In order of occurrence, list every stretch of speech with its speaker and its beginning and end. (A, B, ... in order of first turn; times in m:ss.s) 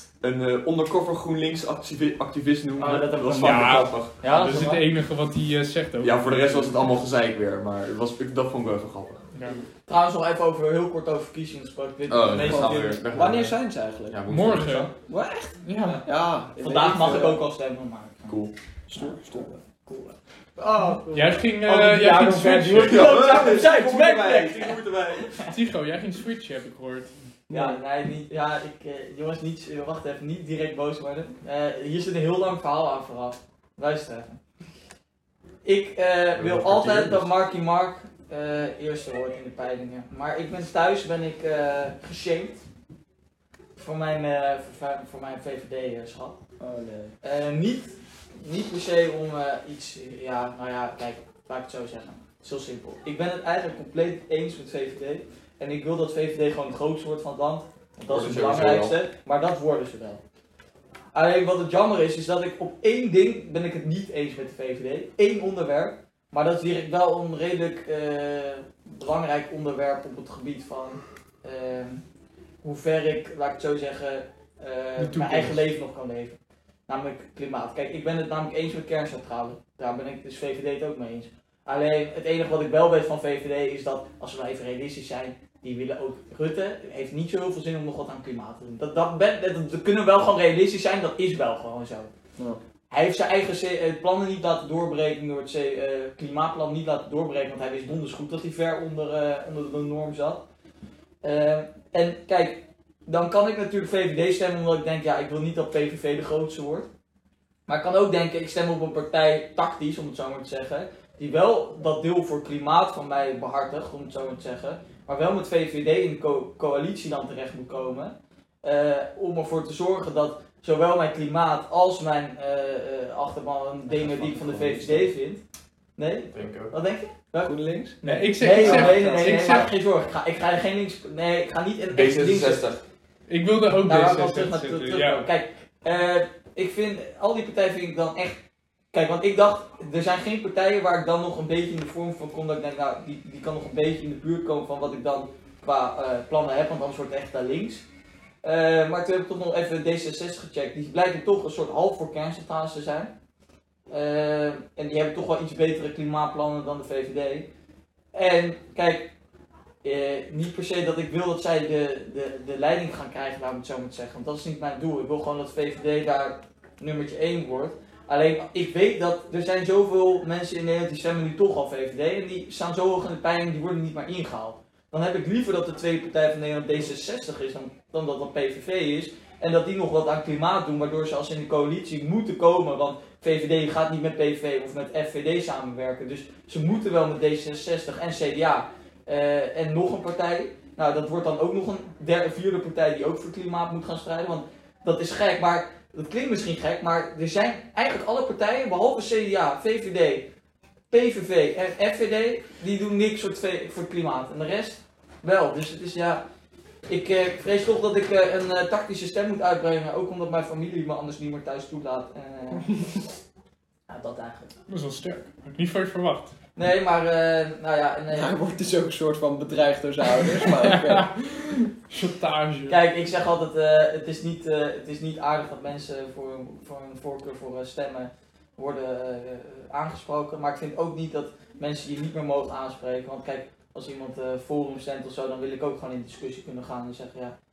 0:00.2-0:04.2 A
0:02.8-0:04.8 B
0:03.4-0:07.0 C
0:06.0-0:09.2 A
0:09.3-0:09.6 C
0:09.9-0:13.0 B
0:12.1-0:14.9 A
0:12.4-0:14.2 D
0:14.3-0:14.9 C
0:15.1-0:17.4 D
0:15.6-0:16.0 C
0:16.6-0:18.4 B
0:18.3-0:18.5 A
0:18.9-0:19.6 D
0:19.8-0:25.5 B
0:20.8-0:23.2 C
0:22.8-0:25.4 A
0:25.4-0:27.1 C
0:27.5-0:27.8 D
0:27.5-0:34.4 B
0:35.6-0:42.6 B
0:36.4-0:37.3 A
0:43.8-0:46.4 B
0:46.6-0:47.1 D
0:47.2-1:00.2 B
0:58.1-0:59.0 A
1:01.1-1:12.0 B
1:12.6-1:16.4 B
1:15.0-1:15.6 C
1:16.9-1:32.1 B
1:32.9-1:40.4 B
1:41.2-1:46.9 B
1:47.7-2:05.4 B
2:04.2-2:05.0 D
2:06.0-2:12.7 B
2:06.3-2:06.8 A
2:07.4-2:09.7 D
2:08.0-2:09.7 C
2:11.9-2:12.8 A
2:13.3-2:15.3 C
2:13.8-2:18.4 B
2:18.9-2:27.8 B
2:28.4-2:33.1 B
2:33.9-2:37.5 B
2:38.1-2:39.1 B
2:39.8-3:20.3 B
3:20.9-3:26.2 B
3:26.9-3:32.7 B
3:33.9-3:34.5 B
3:34.7-3:36.4 C
3:36.6-3:38.3 B
3:38.1-3:41.1 D
3:40.5-3:42.8 C
3:42.7-3:57.4 B